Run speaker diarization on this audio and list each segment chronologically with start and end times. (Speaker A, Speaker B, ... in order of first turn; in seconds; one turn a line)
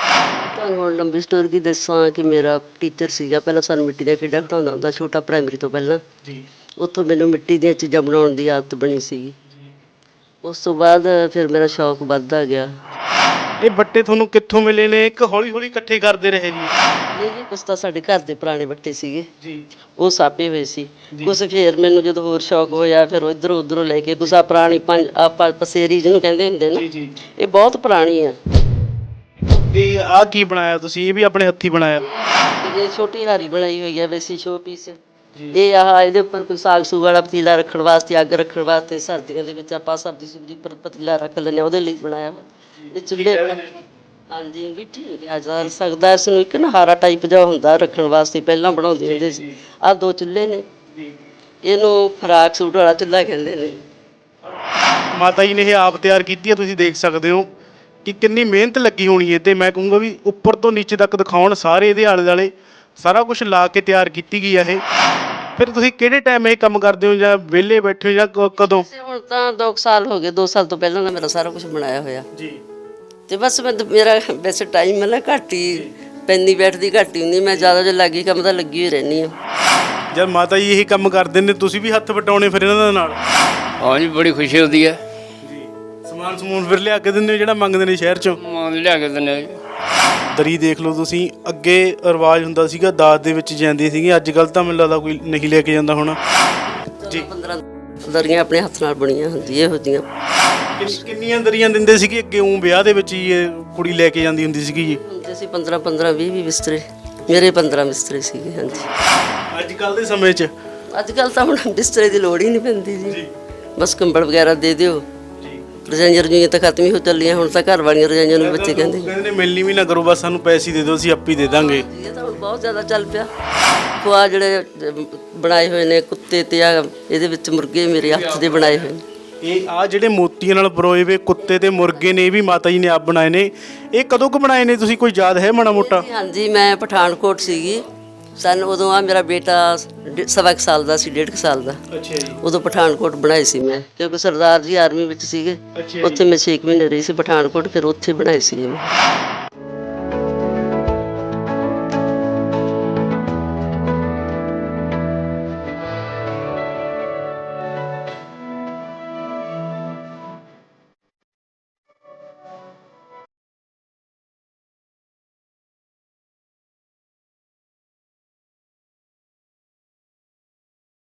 Speaker A: 0.4-6.0
Speaker A: 6.8-9.3
Speaker A: 10.4-12.8
Speaker B: 13.6-16.7
Speaker A: 17.1-19.3
Speaker A: 20.0-26.8
Speaker B: 26.7-27.2
Speaker A: 27.4-28.4
Speaker B: 29.5-32.0
Speaker A: 32.6-35.0
Speaker A: 35.5-43.6
Speaker B: 42.8-43.8
Speaker A: 44.3-50.6
Speaker B: 49.0-49.5
Speaker A: 51.6-53.8
Speaker B: 55.1-57.5
Speaker B: 58.0-64.8
Speaker B: 65.5-68.9
Speaker A: 68.6-72.3
Speaker B: 72.3-72.6
Speaker A: 73.3-79.3
Speaker B: 80.1-83.2
Speaker C: 83.8-85.0
Speaker B: 85.4-88.4
Speaker C: 88.4-89.5
Speaker B: 90.3-96.2
Speaker A: 97.0-100.0
Speaker B: 100.8-105.0
Speaker A: 104.8-108.9
Speaker B: 109.5-110.5
Speaker A: 110.9-113.2
Speaker A: 113.8-115.0
Speaker B: 115.4-115.7
Speaker A: 115.8-119.1
Speaker B: 118.4-121.8
Speaker A: 121.3-123.3
Speaker A: 124.0-129.0
Speaker B: 129.4-136.1
Speaker A: 131.4-132.2
Speaker A: 135.7-137.8
Speaker A: 138.4-141.8
Speaker B: 141.9-142.4
Speaker A: 142.4-148.9
Speaker B: 145.7-146.2